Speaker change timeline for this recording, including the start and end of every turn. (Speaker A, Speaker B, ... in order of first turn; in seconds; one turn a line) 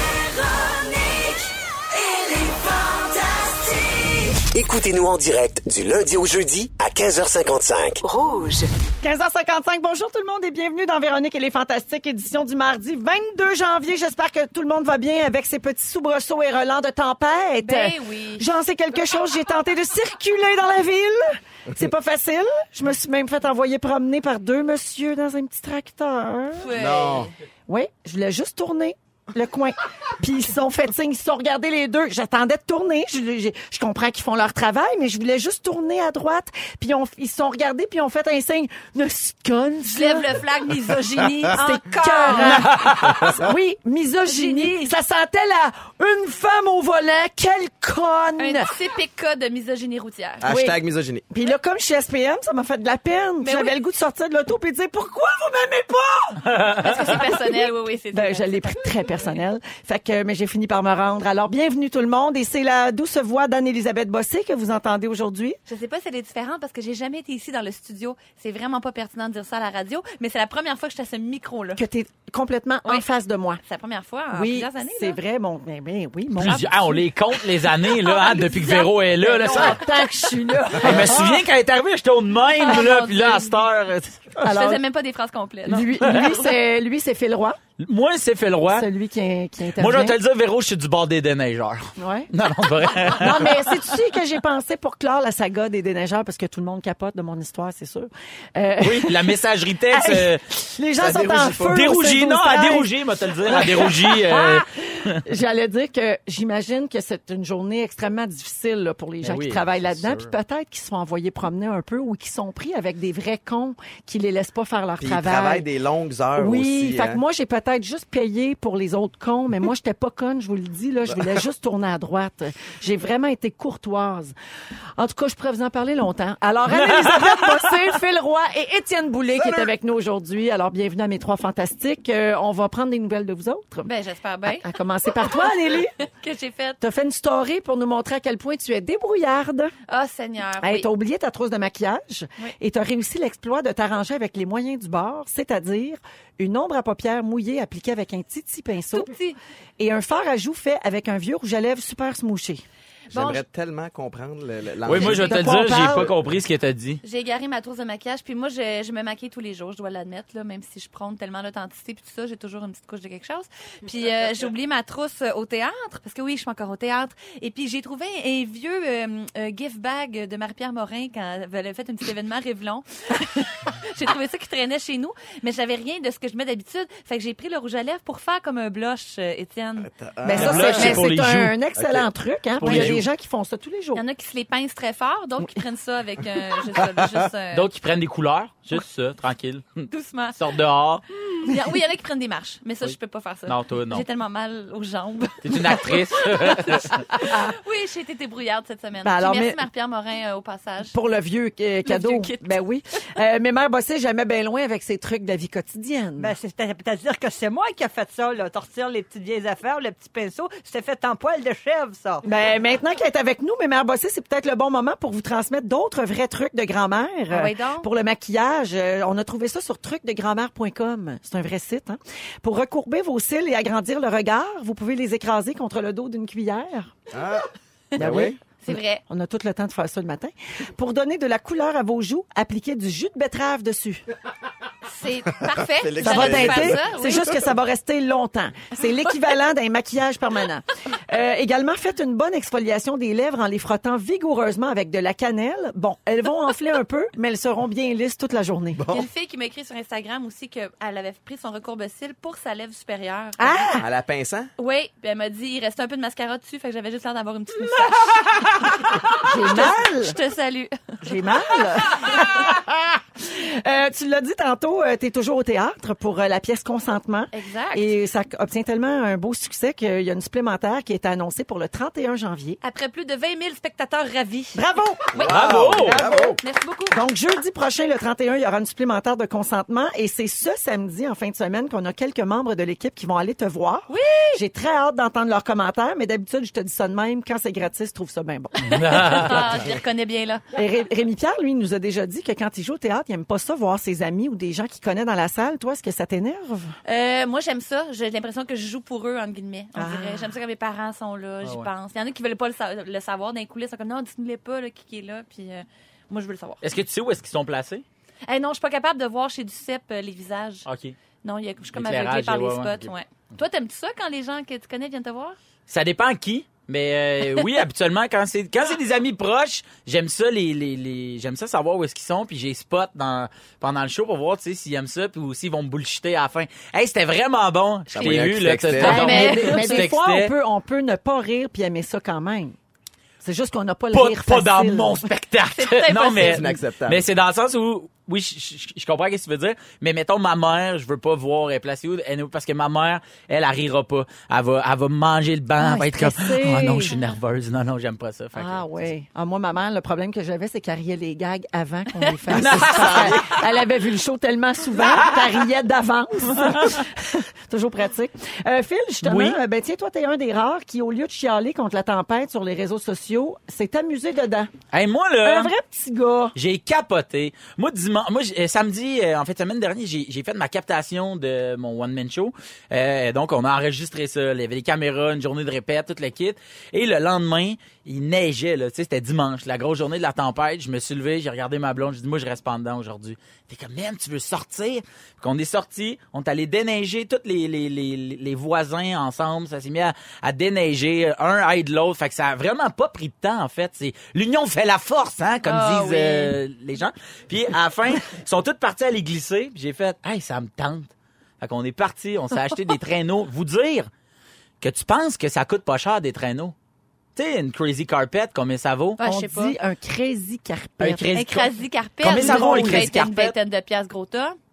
Speaker A: 0.3-1.4
Speaker A: 2.1-8.7
Speaker B: 9.0-26.7
Speaker C: 17.6-18.4
Speaker C: 26.6-27.3
Speaker D: 26.7-27.3
Speaker B: 27.7-40.3
Speaker C: 39.9-42.9
Speaker B: 41.5-48.7
Speaker E: 42.4-43.4
Speaker C: 44.2-44.9
Speaker C: 48.4-50.4
Speaker D: 50.4-51.3
Speaker B: 50.4-50.8
Speaker B: 51.3-65.6
Speaker C: 53.4-53.8
Speaker E: 56.5-56.9
Speaker C: 56.6-59.0
Speaker C: 65.7-71.8
Speaker B: 71.8-73.6
Speaker C: 73.6-75.2
Speaker B: 74.3-77.0
Speaker E: 76.3-79.8
Speaker C: 77.9-79.9
Speaker B: 79.4-81.4
Speaker E: 80.8-84.4
Speaker C: 82.6-83.6
Speaker B: 84.4-84.8
Speaker C: 84.4-86.4
Speaker B: 85.7-87.6
Speaker E: 87.8-88.9
Speaker B: 88.7-90.2
Speaker E: 89.8-93.9
Speaker B: 92.0-92.3
Speaker B: 93.0-102.9
Speaker E: 98.8-100.5
Speaker D: 101.0-101.8
Speaker E: 101.6-105.2
Speaker B: 103.4-115.7
Speaker E: 109.2-110.2
Speaker D: 115.0-117.2
Speaker B: 116.3-124.3
Speaker B: 125.0-133.9
Speaker E: 126.8-127.6
Speaker D: 129.3-129.7
Speaker C: 133.8-136.8
Speaker B: 134.5-135.9
Speaker B: 136.8-139.7
Speaker C: 139.9-140.9
Speaker B: 140.6-149.1
Speaker C: 148.9-149.4
Speaker B: 149.8-152.6
Speaker C: 153.1-153.4
Speaker D: 153.1-156.2
Speaker E: 154.8-157.0
Speaker B: 154.9-156.1
Speaker C: 157.0-179.9
Speaker D: 179.8-181.0
Speaker B: 180.2-184.0
Speaker E: 180.3-182.0
Speaker C: 180.6-181.0
Speaker E: 182.6-183.0
Speaker C: 183.9-187.7
Speaker E: 187.5-191.0
Speaker C: 189.9-190.4
Speaker C: 191.4-200.9
Speaker E: 193.5-194.0
Speaker E: 195.4-197.0
Speaker B: 199.0-199.6
Speaker B: 200.9-206.3
Speaker C: 201.8-202.6
Speaker F: 206.2-212.2
Speaker B: 212.2-226.9
Speaker C: 217.3-217.9
Speaker D: 227.1-228.4
Speaker B: 227.9-234.0
Speaker C: 228.0-229.0
Speaker C: 234.8-237.3
Speaker D: 235.4-236.8
Speaker B: 236.0-248.8
Speaker D: 248.8-249.1
Speaker C: 248.9-253.7
Speaker B: 253.4-253.9
Speaker D: 253.8-254.5
Speaker C: 254.6-261.2
Speaker B: 259.2-260.1
Speaker B: 261.0-272.6
Speaker C: 261.8-262.4
Speaker C: 267.3-267.9
Speaker C: 272.6-274.6
Speaker B: 274.5-275.1
Speaker C: 275.1-277.0
Speaker D: 275.1-276.4
Speaker E: 275.2-276.2
Speaker B: 275.8-276.4
Speaker B: 276.9-288.8
Speaker C: 283.9-284.4
Speaker C: 288.6-290.4
Speaker E: 288.7-289.5
Speaker B: 290.5-296.8
Speaker C: 296.9-306.6
Speaker B: 299.8-300.3
Speaker E: 301.4-301.7
Speaker E: 306.6-307.8
Speaker C: 308.2-310.6
Speaker E: 310.6-310.9
Speaker C: 311.2-315.4
Speaker E: 311.7-312.8
Speaker E: 315.7-330.3
Speaker D: 327.9-329.2
Speaker B: 328.8-332.6
Speaker C: 328.8-329.9
Speaker B: 333.2-335.1
Speaker E: 333.9-348.8
Speaker C: 335.5-336.4
Speaker D: 336.2-337.0
Speaker B: 345.6-346.9
Speaker B: 348.3-364.5
Speaker E: 352.3-353.3
Speaker D: 352.4-353.2
Speaker E: 354.8-355.4
Speaker E: 356.4-356.8
Speaker E: 359.0-359.4
Speaker E: 364.7-365.5
Speaker B: 365.2-366.3
Speaker E: 366.3-403.9
Speaker C: 395.4-396.3
Speaker E: 404.6-406.5
Speaker E: 407.1-409.0
Speaker C: 409.0-409.5
Speaker B: 409.0-411.2
Speaker E: 410.8-411.5
Speaker C: 411.1-414.4
Speaker E: 412.0-413.4
Speaker B: 412.0-412.9